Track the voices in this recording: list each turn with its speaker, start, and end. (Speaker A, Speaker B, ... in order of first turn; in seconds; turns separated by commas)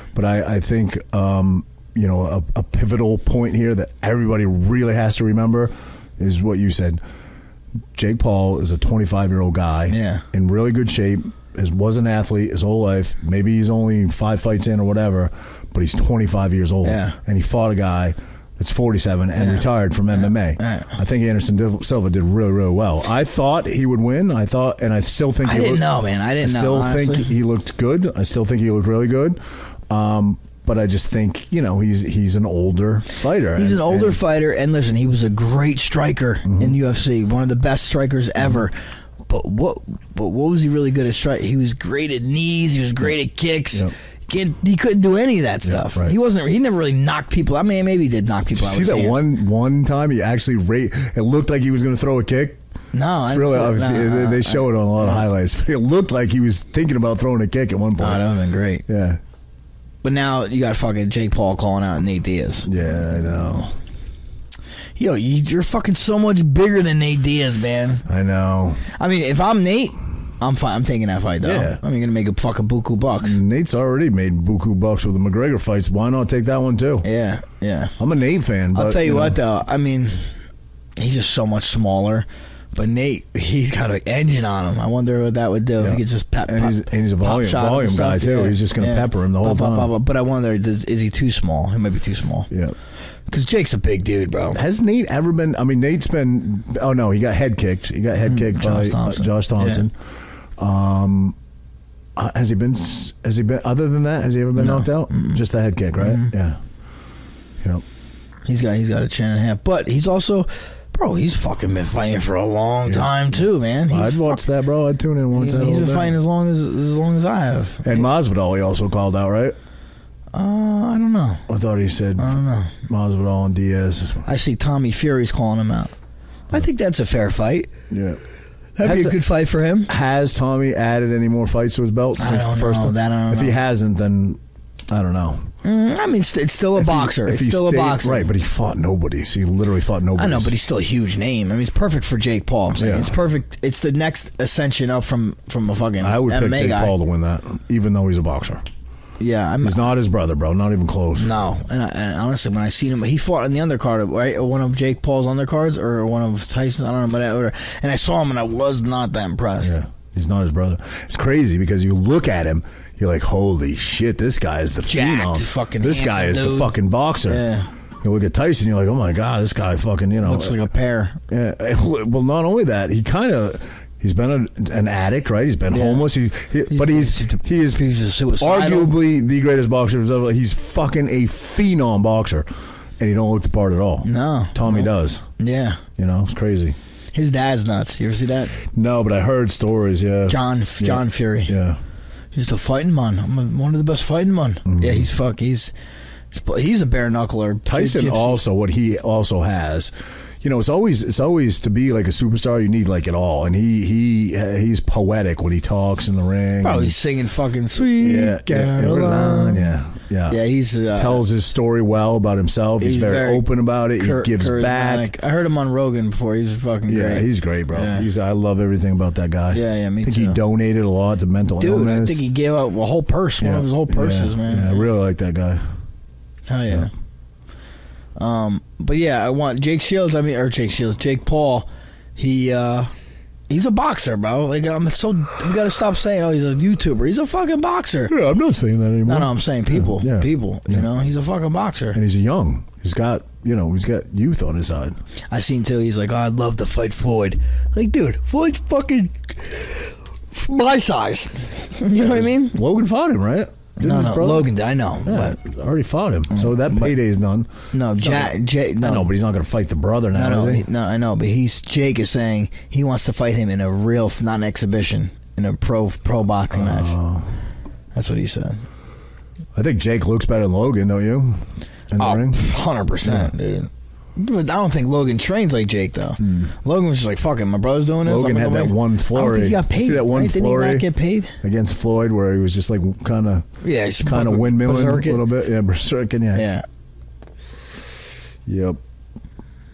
Speaker A: 0.1-7.0, Speaker A: 7.9-25.9, Speaker B: 9.9-10.2, Speaker B: 16.8-17.2, Speaker B: 19.4-20.9, Speaker B: 25.4-27.3, Speaker A: 26.4-29.4, Speaker A: 29.9-34.2, Speaker B: 33.5-49.2, Speaker A: 36.5-36.8, Speaker A: 45.7-46.2, Speaker A: 48.5-52.6, Speaker B: 52.9-55.2, Speaker A: 53.3-58.2, Speaker B: 58.0-58.9, Speaker A: 58.9-59.2, Speaker B: 60.0-63.7, Speaker A: 62.7-63.7, Speaker B: 65.0-68.1, Speaker A: 68.1-68.8, Speaker B: 68.9-73.4, Speaker A: 71.4-71.8, Speaker A: 73.2-77.1, Speaker B: 77.0-78.0, Speaker A: 78.0-79.4, Speaker B: 78.7-80.3, Speaker B: 81.0-92.5, Speaker A: 85.8-89.9, Speaker B: 93.3-94.6, Speaker A: 94.5-99.9, Speaker B: 98.2-99.8, Speaker A: 100.6-101.4, Speaker A: 102.2-106.6, Speaker B: 104.6-105.4, Speaker B: 106.0-106.3, Speaker B: 108.5-114.4, Speaker A: 112.9-113.2, Speaker A: 113.9-116.2, Speaker B: 115.3-118.0, Speaker A: 117.8-119.6, Speaker B: 120.3-121.4, Speaker A: 121.5-124.3, Speaker B: 122.2-122.8, Speaker B: 124.2-125.9, Speaker B: 126.5-127.7, Speaker A: 127.9-128.2, Speaker B: 128.8-129.9, Speaker A: 128.8-129.2, Speaker A: 129.9-135.5, Speaker B: 132.2-133.6, Speaker B: 135.6-138.3, Speaker A: 136.8-140.5, Speaker B: 140.2-146.9, Speaker A: 142.8-143.2, Speaker A: 146.0-148.6, Speaker B: 149.2-149.9, Speaker A: 149.6-151.3, Speaker B: 151.2-159.8, Speaker A: 159.6-167.4, Speaker B: 164.9-166.8, Speaker B: 167.3-167.7, Speaker A: 168.0-170.6, Speaker B: 170.2-171.2, Speaker A: 171.3-177.8, Speaker B: 175.7-176.0, Speaker B: 176.7-179.0, Speaker A: 178.4-182.5, Speaker A: 183.0-185.2, Speaker B: 184.0-185.8, Speaker A: 186.0-186.8, Speaker B: 187.1-188.6, Speaker A: 188.7-191.8, Speaker B: 190.3-191.5, Speaker B: 192.3-195.7, Speaker A: 194.7-195.1, Speaker B: 196.3-198.4, Speaker A: 197.7-207.0, Speaker B: 206.6-209.7, Speaker A: 207.8-210.4, Speaker B: 210.3-211.2, Speaker A: 210.9-215.1, Speaker B: 212.8-218.1, Speaker A: 216.9-222.2, Speaker B: 219.5-220.4, Speaker B: 221.6-224.9, Speaker A: 223.4-225.6, Speaker B: 226.5-226.9, Speaker B: 228.2-232.9, Speaker B: 233.5-238.1, Speaker A: 238.1-240.9, Speaker B: 239.1-242.0, Speaker A: 241.9-245.0, Speaker B: 245.3-252.6, Speaker A: 251.9-254.5, Speaker B: 253.8-255.4, Speaker A: 255.1-257.5, Speaker B: 256.3-256.9, Speaker B: 257.7-259.1, Speaker A: 258.0-260.7, Speaker B: 260.1-266.9, Speaker A: 266.5-267.3, Speaker B: 267.9-268.6, Speaker A: 269.6-272.4, Speaker B: 272.0-281.4, Speaker A: 273.0-273.3, Speaker A: 276.2-276.5, Speaker A: 278.0-280.9, Speaker A: 281.4-283.5, Speaker B: 283.6-285.2, Speaker A: 284.0-286.5, Speaker B: 286.3-286.6, Speaker A: 288.5-288.8